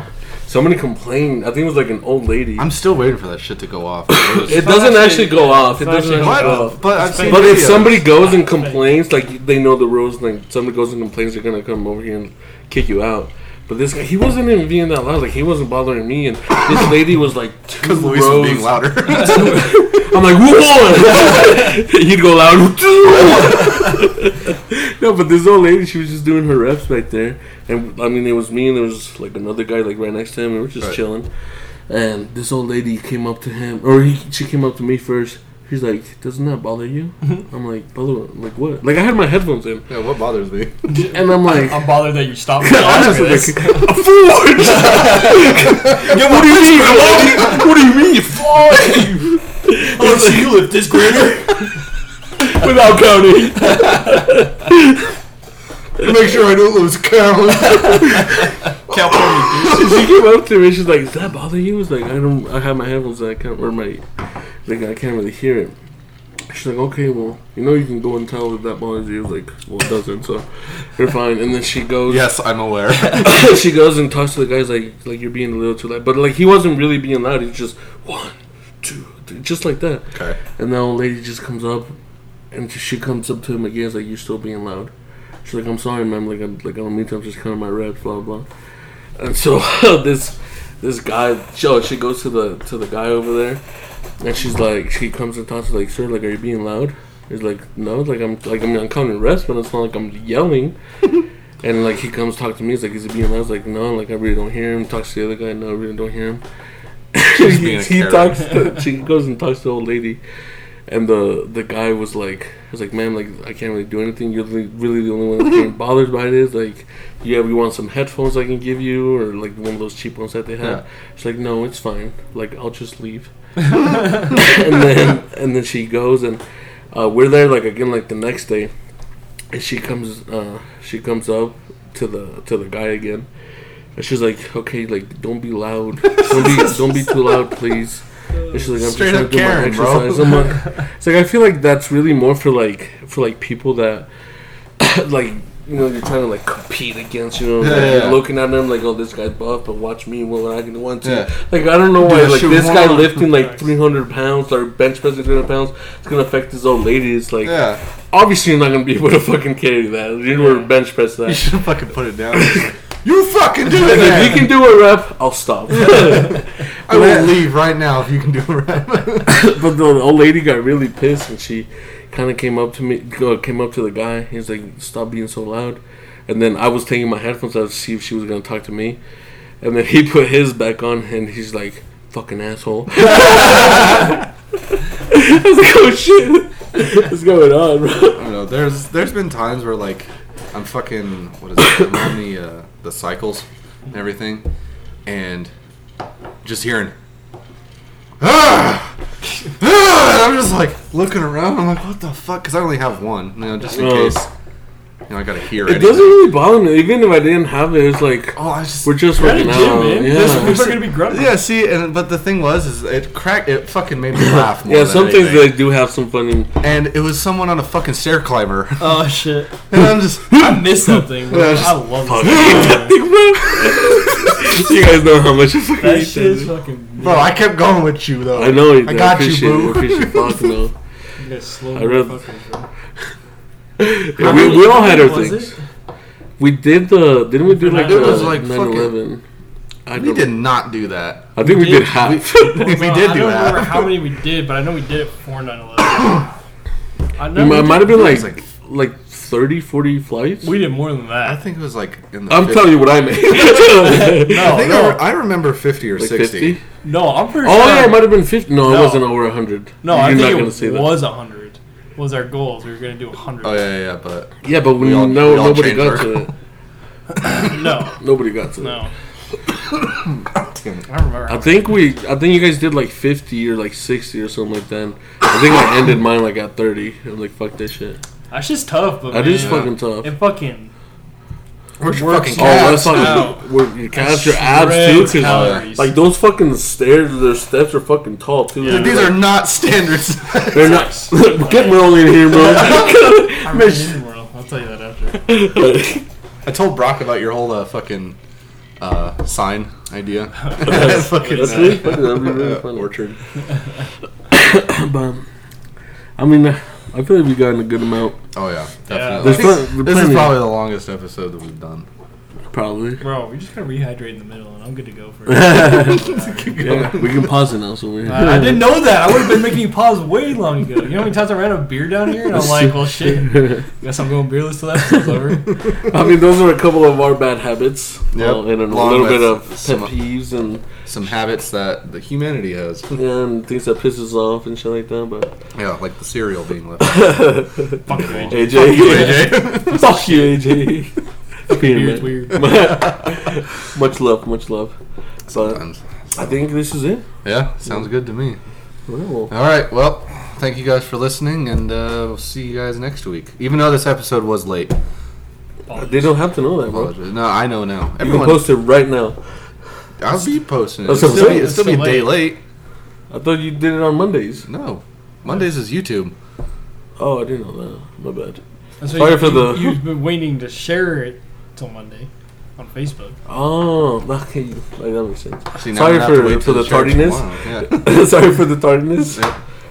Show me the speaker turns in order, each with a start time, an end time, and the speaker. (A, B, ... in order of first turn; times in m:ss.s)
0:00.5-0:02.7 A
0:02.6-0:04.7 B
0:04.1-0:31.3 A
0:04.4-0:08.8 C
0:06.1-0:08.0 B
0:17.8-0:19.7 B
0:31.9-0:39.9 A
0:39.9-0:40.8 B
0:40.9-0:43.9 C
0:41.0-0:42.1 A
0:42.6-0:50.8 A
0:44.6-0:47.7 C
0:48.8-0:49.1 C
0:49.7-0:51.7 C
0:52.4-0:55.1 A
0:56.0-0:59.0 B
0:58.9-1:00.0 C
0:59.6-1:04.0 A
1:04.6-1:05.8 A
1:06.5-1:12.3 A
1:12.1-1:13.4 B
1:13.1-1:20.0 A
1:20.1-1:20.4 B
1:20.6-1:21.9 A
1:22.5-1:24.9 A
1:25.4-1:28.4 A
1:29.2-1:33.6 A
1:34.2-1:40.8 A
1:41.6-1:46.4 A
1:47.1-1:50.2 A
1:47.3-1:48.5 B
1:50.9-2:06.4 A
2:06.9-2:08.7 A
2:09.5-2:13.3 A
2:13.9-2:24.1 A
2:18.8-2:20.4 B
2:24.8-2:41.5 A
2:27.6-2:28.2 B
2:31.0-2:31.3 B
2:32.0-2:33.2 B
2:33.3-2:33.6 C
2:37.4-2:37.8 B
2:40.4-2:40.7 C
2:41.2-2:44.5 B
2:42.3-2:42.7 A
2:43.7-2:47.3 A
2:45.8-2:49.4 B
2:49.3-2:59.0 A
2:59.6-3:04.2 A
3:05.1-3:08.2 A
3:08.1-3:14.5 B
3:15.0-3:15.5 B
3:16.4-3:16.9 B
3:18.2-3:18.9 B
3:19.6-3:24.3 B
3:23.7-3:24.2 A
3:25.1-3:26.2 B
3:25.6-3:30.7 A
3:28.3-3:28.9 B
3:29.2-3:31.4 C
3:30.2-3:35.5 B
3:34.1-3:36.5 A
3:36.6-3:39.0 B
3:38.8-3:39.6 C
3:39.7-3:41.0 B
3:40.3-3:43.0 C
3:41.3-3:46.5 A
3:45.8-3:47.4 C
3:47.0-3:50.6 B
3:48.3-3:50.7 A
3:51.2-3:52.7 C
3:51.7-3:52.2 A
3:53.8-3:55.5 A
3:54.2-3:55.6 C
3:54.2-3:54.7 B
3:56.4-3:59.2 A
3:57.4-3:58.4 C
3:57.7-3:58.9 B
3:59.8-4:00.3 A
3:59.9-4:04.0 B
4:01.4-4:02.7 A
4:01.4-4:06.3 C
4:07.2-4:08.2 C
4:07.3-4:10.6 A
4:07.9-4:08.4 B
4:10.4-4:11.4 C
4:11.2-4:12.9 B
4:12.3-4:14.7 A
4:13.5-4:15.0 C
4:14.3-4:16.6 B
4:16.0-4:16.6 A
4:16.8-4:18.1 C
4:17.4-4:21.1 A
4:18.6-4:19.0 C
4:19.8-4:23.7 C
4:23.4-4:26.3 B
4:24.4-4:26.3 A
4:27.2-4:27.9 C
4:28.0-4:28.8 A
4:28.6-4:28.9 C
4:30.3-4:30.8 B
4:30.9-4:31.7 C
4:31.3-4:38.0 A
4:38.3-4:40.7 C
4:39.1-4:40.1 A
4:41.8-4:43.3 B
4:41.8-4:43.4 C
4:42.3-4:49.2 A
4:43.9-4:45.9 C
4:45.2-4:45.6 B
4:48.6-4:49.0 C
4:48.6-4:50.9 B
4:50.5-4:54.0 A
4:50.5-4:55.3 C
4:55.2-4:56.0 A
4:56.4-4:58.2 B
4:58.8-5:03.2 B
5:00.5-5:01.8 C
5:00.6-5:03.0 A
5:04.3-5:05.2 A
5:06.2-5:08.2 A
5:08.3-5:11.9 B
5:08.9-5:09.5 C
5:09.2-5:10.4 A
5:12.5-5:13.0 A
5:13.0-5:16.6 C
5:15.3-5:18.8 A
5:15.9-5:17.3 B
5:18.0-5:25.5 C
5:22.3-5:23.6 A
5:25.8-5:30.6 A
5:28.1-5:29.9 B
5:30.8-5:32.9 B
5:32.9-5:35.3 A
5:35.5-5:37.2 B
5:36.8-5:40.9 A
5:37.8-5:38.9 C
5:37.9-5:40.2 B
5:41.5-5:42.6 C
5:41.5-5:44.7 A
5:45.3-5:45.6 A
5:45.3-5:45.8 B
5:46.2-5:47.0 A
5:47.2-5:48.4 B
5:48.9-5:49.3 A
5:49.3-5:54.7 B
5:55.7-5:56.2 C
5:55.7-5:57.0 A
5:56.7-5:58.5 B
5:58.0-5:59.2 A
6:00.0-6:02.4 B
6:00.8-6:01.6 A
6:00.9-6:02.2 C
6:03.1-6:04.4 A
6:04.4-6:06.1 B
6:07.0-6:09.8 A
6:08.8-6:13.2 C
6:13.3-6:19.3 A
6:15.6-6:17.8 B